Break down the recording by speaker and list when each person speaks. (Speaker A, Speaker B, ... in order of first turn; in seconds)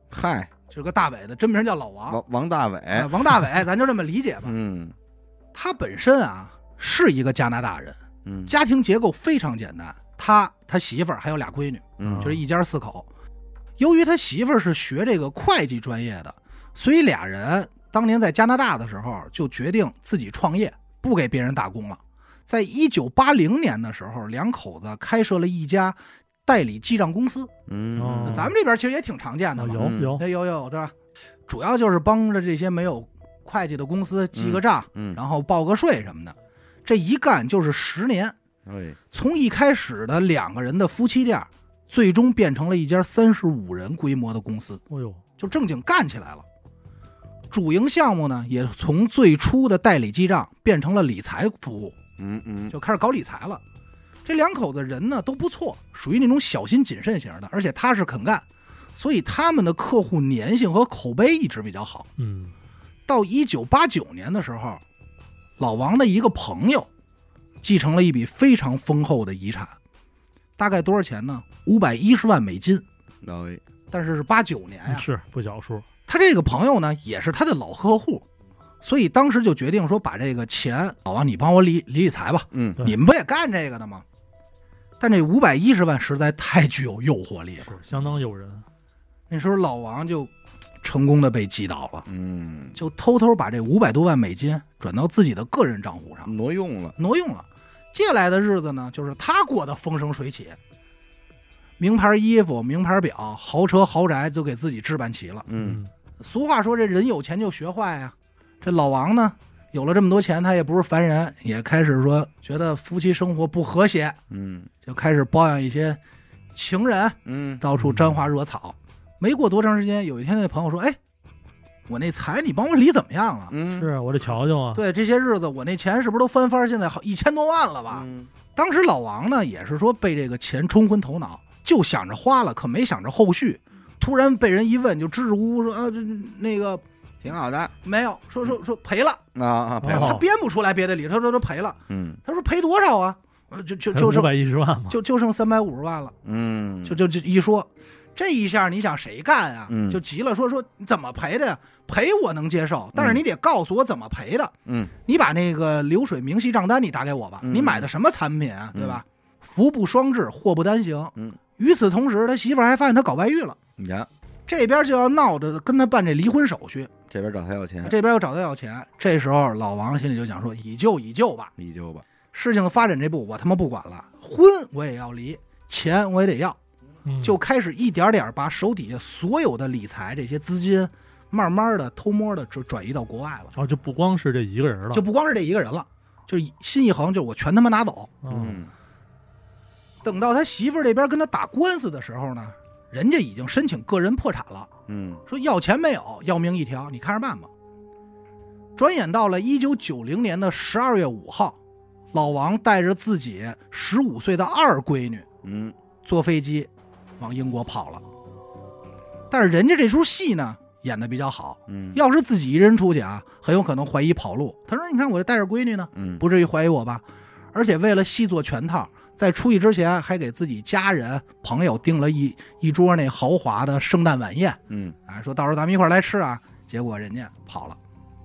Speaker A: 0.1-0.5, 2.1-3.1, 4.4-5.0, 8.2-8.5, 12.0-12.4, 27.7-28.5, 29.8-30.2, 34.4-35.2, 38.7-39.0, 52.2-52.8, 73.2-73.6, 82.5-82.8, 87.9-88.2, 92.1-92.8, 96.3-97.0, 105.5-105.8, 114.3-114.7, 117.2-117.6, 123.5-123.9, 127.9-128.3, 137.2-137.7, 139.3-140.2, 141.9-142.2, 146.2-147.0, 149.7-150.0, 153.0-153.2, 154.7-154.9, 157.4-157.9, 158.7-159.0, 163.8-164.1, 167.1-168.0, 171.6-172.1, 188.3-188.7, 194.9-195.2, 205.4-205.8, 211.7-212.0, 215.9-216.2, 224.7-225.0
Speaker B: 0.7-2.2, 2.9-4.5, 5.5-13.1, 13.8-27.5, 28.2-30.9, 31.5-38.4, 39.1-44.8, 45.4-46.5, 47.5-52.0, 52.7-53.6, 54.2-58.5, 59.0-62.1, 63.1-64.8, 65.6-66.9, 67.6-69.8, 70.6-72.8, 73.9-75.1, 76.1-78.2, 78.8-84.0, 85.0-87.8, 89.3-92.1, 92.8-96.3, 97.0-100.6, 101.8-105.5, 106.2-114.2, 114.8-116.0, 116.5-121.0, 121.9-123.5, 124.8-136.8, 137.8-139.2, 139.8-144.3, 144.9-146.2, 146.8-163.6, 164.5-166.9, 167.8-171.5, 172.3-176.6, 177.2-183.6, 184.9-188.2, 190.0-194.7, 195.3-197.5, 198.8-201.6, 202.1-205.3, 206.0-208.0, 209.3-227.8
Speaker C: 12.0-12.4, 28.0-28.5, 29.6-30.2, 44.9-45.2, 62.2-62.5, 74.9-75.9, 87.6-88.7, 105.6-105.9, 123.8-124.8, 139.8-140.2, 143.9-145.0, 177.1-177.4, 183.6-185.0, 188.2-188.6